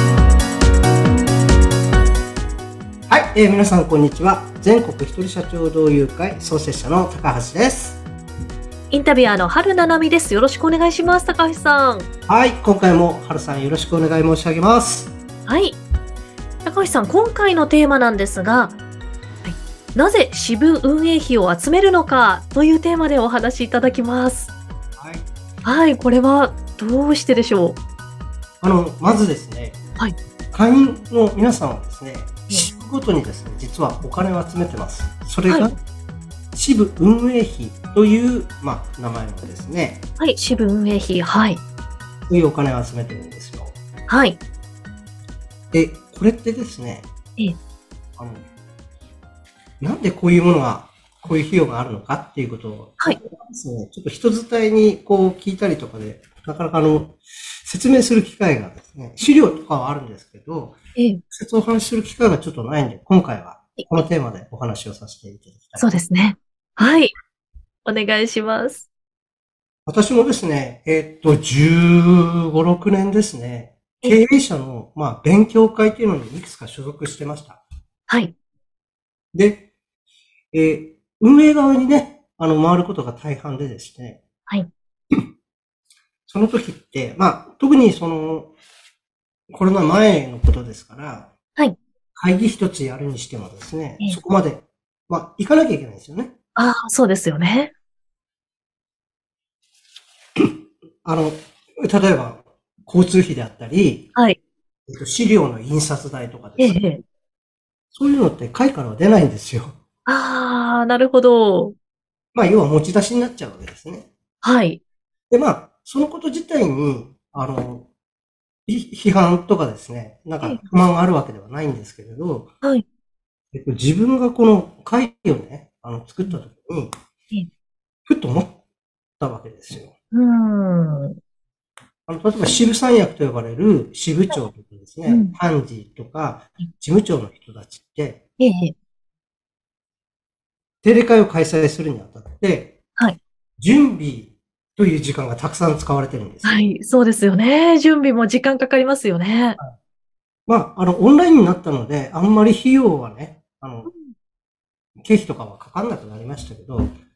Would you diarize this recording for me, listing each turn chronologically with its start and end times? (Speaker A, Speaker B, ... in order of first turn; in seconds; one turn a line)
Speaker A: 3.1-8.0
Speaker B: 8.9-12.1
Speaker A: 12.3-15.1
Speaker B: 15.5-15.8
Speaker B: 16.6-18.8
Speaker B: 19.4-24.5
Speaker A: 25.0-25.3
Speaker B: 25.6-27.8
Speaker A: 28.6-29.8
Speaker A: 30.5-35.8
Speaker A: 36.5-40.0
Speaker B: 40.2-41.6
Speaker A: 42.3-43.7
Speaker B: 44.1-44.4
Speaker A: 45.7-47.1
Speaker A: 48.2-48.4
Speaker A: 49.8-60.8
Speaker B: 61.0-61.2
Speaker A: 61.3-65.9
Speaker B: 65.8-67.1
Speaker B: 67.8-68.9
Speaker A: 69.9-77.6
Speaker B: 78.1-78.3
Speaker A: 79.3-79.7
Speaker A: 80.5-84.2
Speaker A: 86.3-88.5
Speaker A: 89.5-91.3
Speaker A: 92.1-96.3
Speaker B: 96.5-97.7
Speaker A: 100.3-104.1
Speaker A: 104.9-106.8
Speaker B: 106.6-107.0
Speaker A: 107.9-109.7
Speaker B: 110.0-111.7
Speaker A: 112.3-114.1
Speaker B: 114.4-114.8
Speaker A: 115.3-117.9
Speaker A: 118.7-122.5
Speaker A: 123.5-126.9
Speaker A: 128.1-128.6
Speaker A: 129.2-129.9
Speaker B: 130.1-131.2
Speaker A: 132.1-138.2
Speaker B: 135.1-135.3
Speaker B: 138.4-138.7
Speaker A: 140.8-142.8
Speaker A: 143.6-146.7
Speaker B: 146.4-149.6
Speaker A: 150.5-153.9
Speaker B: 153.9-154.1
Speaker A: 155.0-156.9